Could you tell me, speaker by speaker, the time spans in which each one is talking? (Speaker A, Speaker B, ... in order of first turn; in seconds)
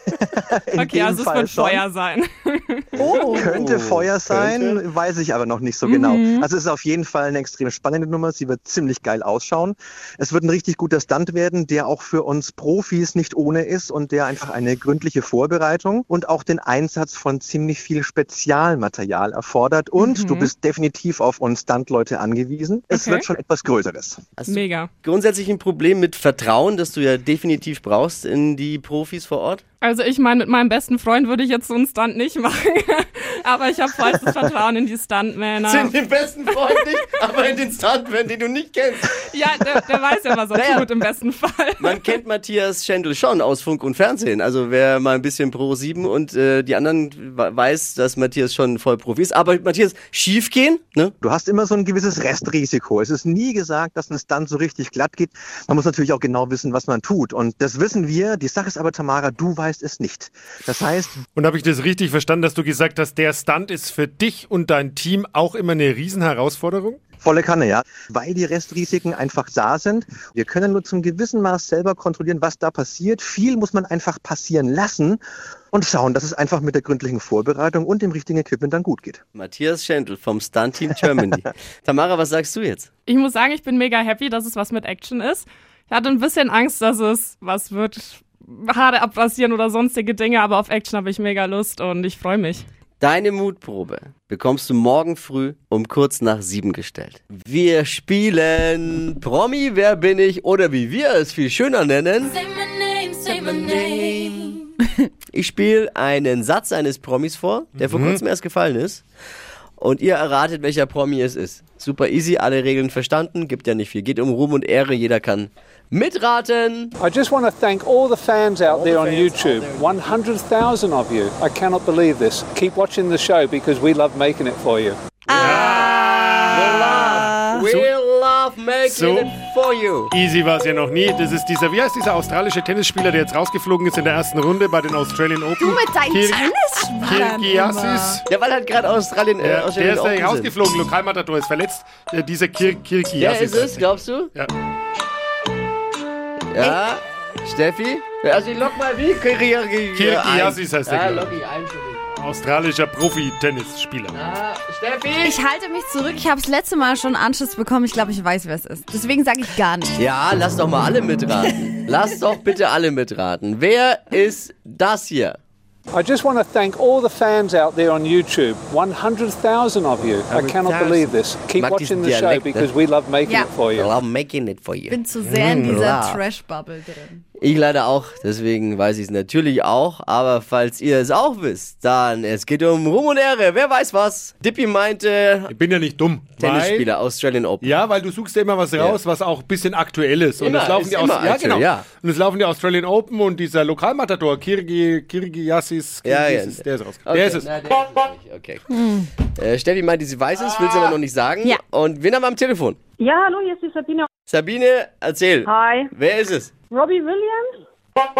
Speaker A: 0.2-1.8, 3.0-24.2, 51.2-61.2, 67.2-75.2, 75.7-79.2
Speaker B: 0.8-2.9, 20.0-20.5, 22.9-23.2, 24.5-24.9, 29.8-35.9, 39.3-42.0, 83.1-92.6
Speaker C: 2.9-4.8, 24.4-29.6, 35.6-39.2, 40.5-40.9, 41.8-51.1, 79.3-82.9, 93.0-102.5, 103.2-104.6, 105.3-109.0, 109.8-116.9, 118.6-120.1, 126.5-130.1, 138.3-140.5, 143.2-144.3, 146.5-152.0, 154.1-155.4, 160.0-165.4, 170.3-172.7, 173.7-176.2, 177.4-185.5, 186.4-187.7, 190.4-191.8, 196.0-198.7, 199.3-202.8, 204.3-206.5
Speaker D: 3.0-3.5, 5.8-6.2, 125.3-127.7, 135.6-138.2, 155.2-159.9, 174.9-177.2
Speaker E: 61.3-67.0, 107.8-108.2, 125.3-127.8, 128.8-129.3, 130.1-138.2, 139.4-144.5, 149.9-151.4, 152.2-154.2, 175.2-175.9, 185.5-186.9, 187.6-197.5
Speaker F: 117.0-125.4, 165.9-173.9
Speaker G: 203.0-204.1, 205.4-205.9, 206.7-207.6